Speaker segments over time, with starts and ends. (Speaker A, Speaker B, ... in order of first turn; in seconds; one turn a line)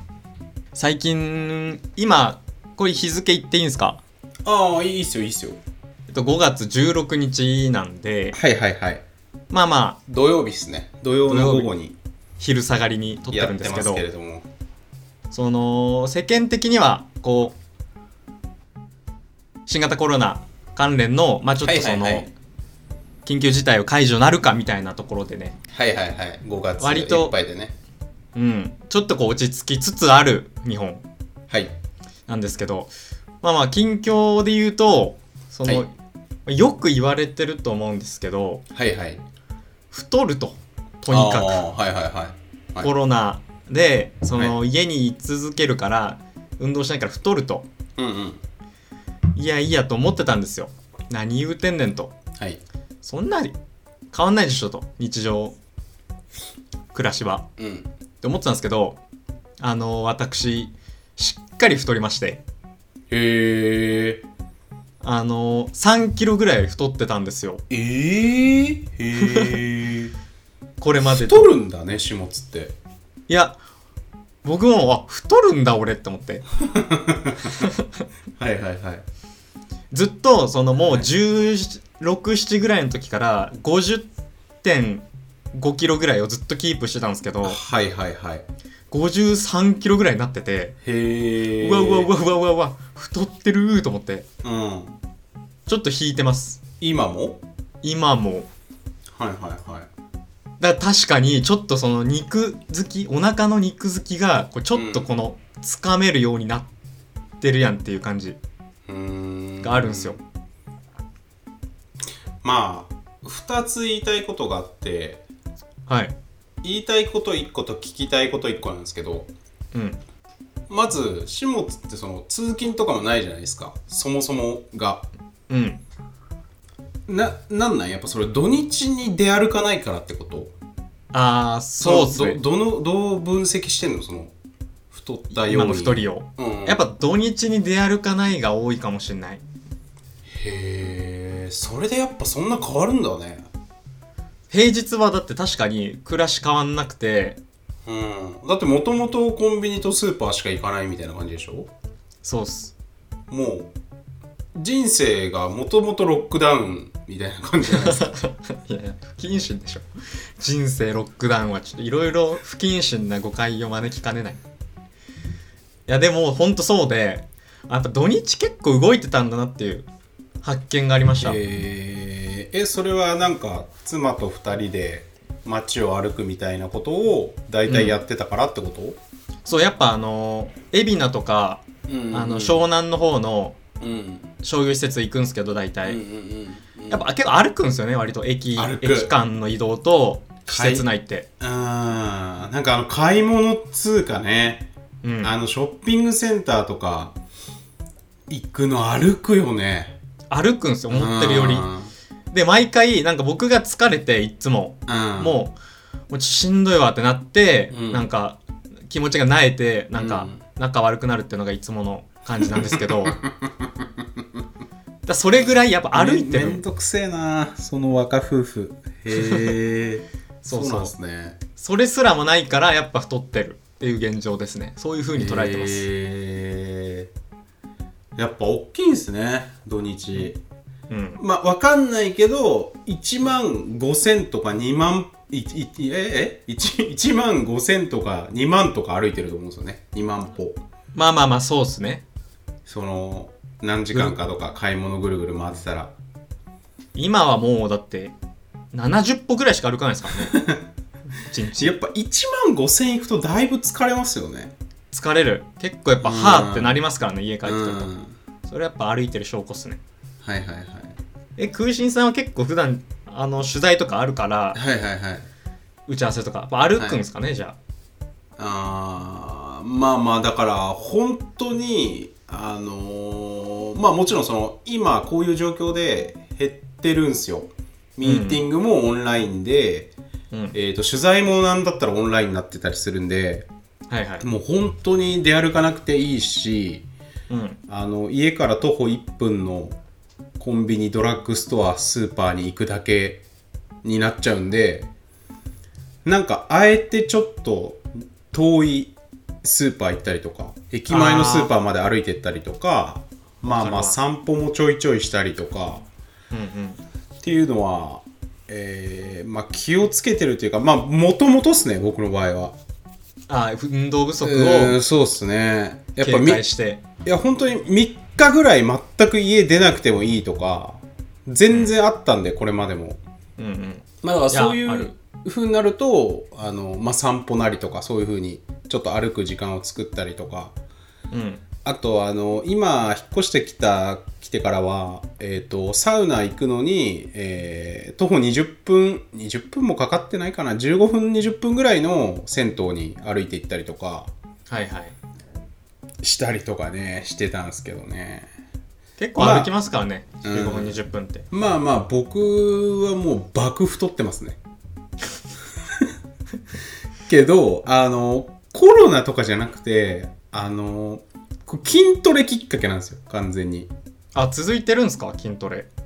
Speaker A: 0.7-4.0
Speaker B: 4.4-5.6
Speaker A: 6.1-8.4
Speaker B: 8.3-9.0
Speaker A: 9.5-10.0
Speaker B: 10.1-12.0
Speaker A: 11.3-11.7
Speaker A: 12.4-14.0
Speaker B: 13.3-14.5
Speaker A: 15.3-17.6
Speaker A: 19.6-22.3
Speaker B: 21.6-22.3
Speaker A: 23.2-25.6
Speaker B: 25.7-27.7
Speaker A: 26.8-27.4
Speaker A: 28.3-31.0
Speaker B: 31.5-31.7
Speaker A: 32.3-35.9
Speaker A: 36.5-38.6
Speaker B: 38.7-39.2
Speaker A: 39.9-41.6
Speaker B: 41.1-42.9
Speaker A: 42.8-47.7
Speaker B: 48.0-48.4
Speaker A: 49.3-52.1
Speaker A: 53.0-53.6
Speaker A: 54.1-55.5
Speaker A: 56.9-57.5
Speaker B: 57.6-57.9
Speaker A: 58.2-59.0
Speaker A: 59.6-62.4
Speaker B: 63.1-64.2
Speaker A: 65.0-67.6
Speaker B: 67.7-70.1
Speaker A: 69.2-69.5
Speaker A: 70.8-71.5
Speaker B: 71.0-72.8
Speaker A: 73.3-73.6
Speaker A: 74.4-76.5
Speaker B: 76.7-77.6
Speaker B: 78.4-79.0
Speaker A: 79.9-84.1
Speaker B: 80.8-81.1
Speaker A: 84.6-87.6
Speaker B: 87.4-88.5
Speaker A: 88.9-90.8
Speaker B: 90.8-92.1
Speaker A: 91.5-94.2
Speaker B: 94.4-95.0
Speaker A: 95.7-96.6
Speaker B: 96.8-97.4
Speaker A: 97.8-98.5
Speaker B: 99.1-99.9
Speaker A: 100.6-106.7
Speaker B: 104.7-105.1
Speaker A: 107.4-108.4
Speaker B: 108.9-110.2
Speaker A: 109.6-110.2
Speaker B: 112.4-115.2
Speaker A: 115.9-116.1
Speaker B: 116.6-119.3
Speaker A: 119.7-120.0
Speaker B: 120.7-125.1
Speaker A: 125.5-125.8
Speaker B: 127.1-130.5
Speaker A: 131.1-132.4
Speaker B: 131.8-134.3
Speaker B: 134.9-136.8
Speaker A: 135.3-139.4
Speaker B: 140.3-143.5
Speaker A: 144.5-147.4
Speaker B: 147.8-151.7
Speaker A: 152.2-152.7
Speaker B: 153.3-153.7
Speaker B: 154.5-158.2
Speaker A: 157.7-164.4
Speaker A: 165.9-169.9
Speaker A: 170.4-171.4
Speaker B: 171.2-179.0
Speaker A: 177.7-178.0
Speaker A: 179.4-183.6
Speaker B: 181.9-182.7
Speaker B: 183.8-184.3
Speaker A: 184.4-186.0
Speaker B: 185.8-187.1
Speaker A: 186.9-191.3
Speaker B: 188.5-189.1
Speaker B: 190.5-190.9
Speaker B: 191.4-194.7
Speaker A: 195.0-195.3
Speaker B: 195.2-197.2
Speaker B: 198.3-199.9
Speaker A: 200.3-201.7
Speaker B: 200.9-201.9
Speaker A: 202.3-205.6
Speaker B: 204.9-205.4
Speaker A: 206.1-213.2
Speaker B: 207.7-208.1
Speaker B: 209.9-210.4
Speaker B: 212.5-213.8
Speaker A: 215.1-216.6
Speaker B: 215.9-221.4
Speaker A: 219.2-219.5
Speaker A: 220.4-220.9
Speaker A: 221.6-225.9
Speaker B: 225.1-227.1
Speaker B: 228.2-230.4
Speaker A: 230.9-231.2
Speaker B: 231.2-240.6
Speaker A: 240.9-242.0
Speaker B: 242.7-245.9
Speaker A: 246.9-248.1
Speaker A: 248.7-250.3
Speaker B: 250.2-250.6
Speaker A: 251.2-251.7
Speaker B: 251.6-254.5
Speaker A: 254.9-257.9
Speaker B: 256.0-256.8
Speaker B: 257.4-258.1
Speaker A: 258.5-259.8
Speaker B: 260.2-261.0
Speaker A: 261.4-264.6
Speaker B: 264.5-265.3
Speaker A: 265.9-267.6
Speaker B: 266.8-267.0
Speaker B: 268.4-279.9
Speaker A: 278.0-278.4
Speaker B: 280.5-283.5
Speaker A: 283.9-284.2
Speaker B: 284.2-286.9
Speaker A: 287.3-287.6
Speaker B: 287.7-289.8
Speaker B: 290.4-293.2
Speaker B: 293.8-294.9
Speaker B: 296.0-305.9
Speaker A: 300.9-301.5
Speaker A: 303.4-304.0
Speaker A: 306.3-306.8
Speaker B: 307.2-312.6
Speaker A: 313.3-314.8
Speaker B: 314.2-316.4
Speaker A: 316.0-316.8
Speaker B: 317.0-323.0
Speaker A: 323.4-324.9
Speaker B: 324.0-330.5
Speaker A: 331.1-331.4
Speaker B: 331.6-344.1
Speaker A: 344.5-344.9
Speaker B: 346.0-348.3
Speaker A: 349.0-351.2
Speaker B: 349.1-349.5
Speaker B: 350.2-350.8
Speaker B: 351.3-354.4
Speaker B: 357.1-363.7
Speaker A: 364.1-365.7